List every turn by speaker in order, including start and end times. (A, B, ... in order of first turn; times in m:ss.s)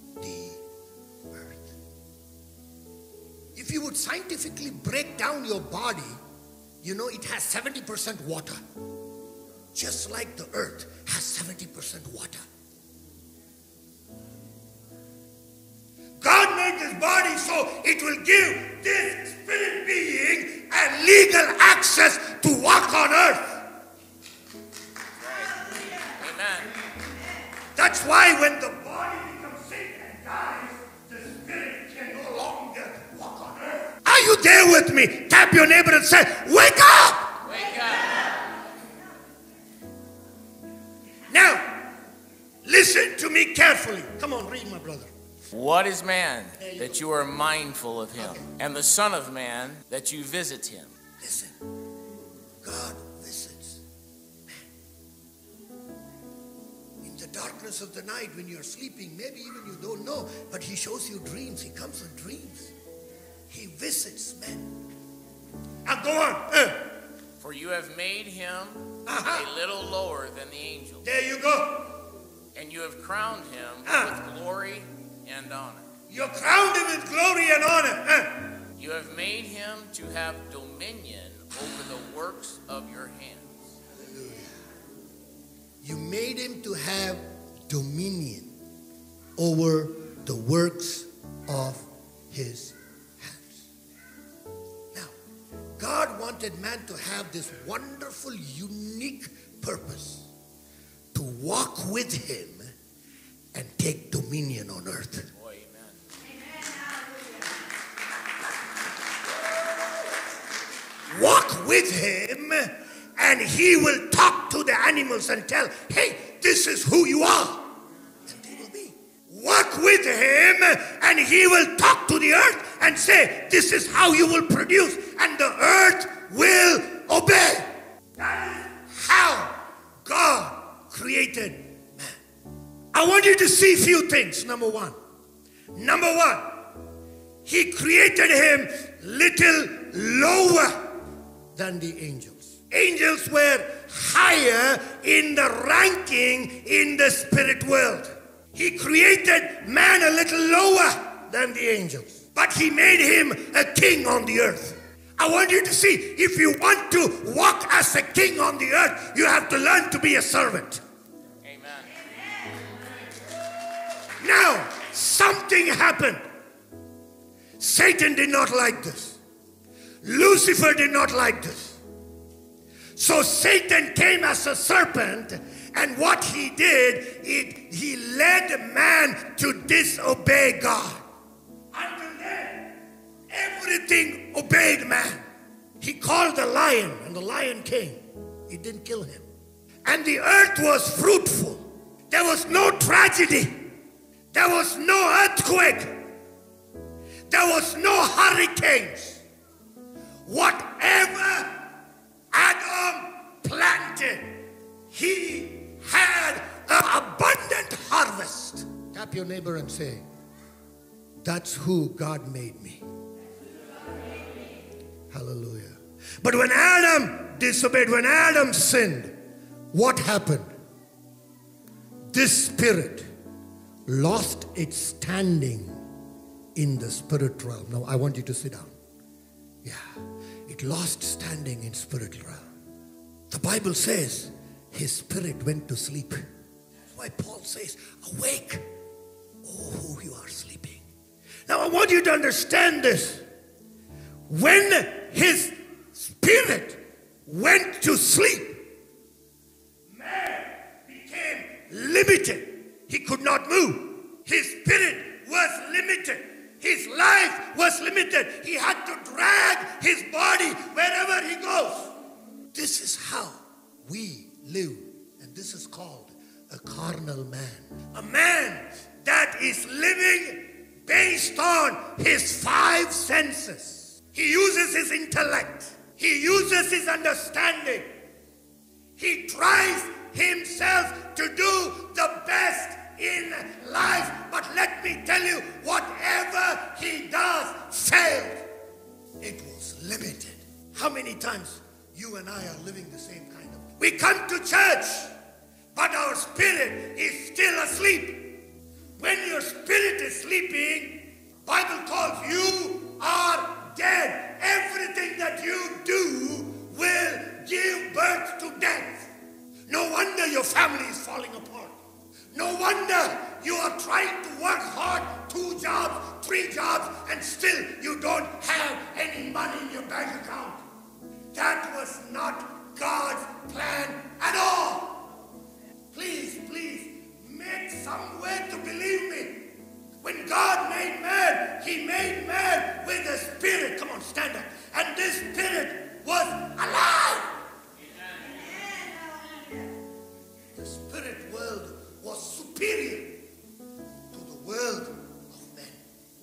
0:00.2-0:00.6 A
0:01.3-0:01.8 A
0:03.5-0:06.2 A
0:06.8-0:08.6 A
0:09.7-0:12.4 A
0:16.2-0:23.6 A
0:25.2-0:26.7 B
0:27.8-0:37.4 A
0:37.4-0:38.3 B
0:41.3-0:41.8 A
0:42.6-0:45.1 A
0:45.5-0:50.9 B
0:46.6-0:47.0 A
0:48.2-0:48.5 A
0:51.2-0:51.6 A
0:52.6-0:53.8 A
0:57.0-1:02.7 A
1:03.5-1:04.8 A
1:05.8-1:06.8 A
1:07.4-1:11.0 B
1:09.0-1:09.5 A
1:11.0-1:11.9 A
1:12.5-1:15.9 B
1:13.8-1:14.1 A
1:16.1-1:18.5 A
1:18.8-1:23.6 B
1:24.0-1:24.5 A
1:25.8-1:28.5 A
1:29.4-1:33.6 A
1:35.8-1:40.3 A
1:41.1-1:42.7 A
1:43.5-1:45.3 A
1:45.3-1:46.0 B
1:51.1-1:57.7 A
1:58.3-2:12.2 A
2:12.9-2:15.0 A
2:15.7-2:16.7 A
2:17.4-2:21.0 A
2:21.5-2:40.8 A
2:41.4-2:41.9 B
2:44.2-2:46.2 A
2:47.6-2:49.2 A
2:50.0-2:51.8 A
2:53.0-3:01.0 A
3:01.7-3:02.8 A
3:03.3-3:05.2 A
3:05.8-3:09.3 A
3:09.8-3:13.6 A
3:14.3-3:16.0 A
3:17.3-3:19.2 A
3:20.2-3:21.6 A
3:22.3-3:24.4 A
3:24.9-3:30.0 A
3:31.2-3:32.8 A
3:35.1-3:39.2 A
3:39.7-3:40.5 A
3:42.1-3:43.1 A
3:43.9-3:45.8 A
3:46.5-3:48.7 A
3:49.6-3:52.4 A
3:53.3-3:56.2 A
3:56.9-3:58.7 A
3:59.4-4:00.8 A
4:01.5-4:03.2 A
4:04.3-4:08.6 A
4:09.9-4:21.9 A
4:22.5-4:37.9 A
4:39.0-4:48.4 A
4:49.2-4:55.1 A
4:55.7-4:58.4 A
4:59.0-5:09.1 A
5:09.7-5:11.8 A
5:12.3-5:20.6 A
5:21.3-5:25.0 A
5:25.9-5:29.5 A
5:30.0-5:37.4 A
5:40.5-5:43.2 A
5:44.1-5:45.8 A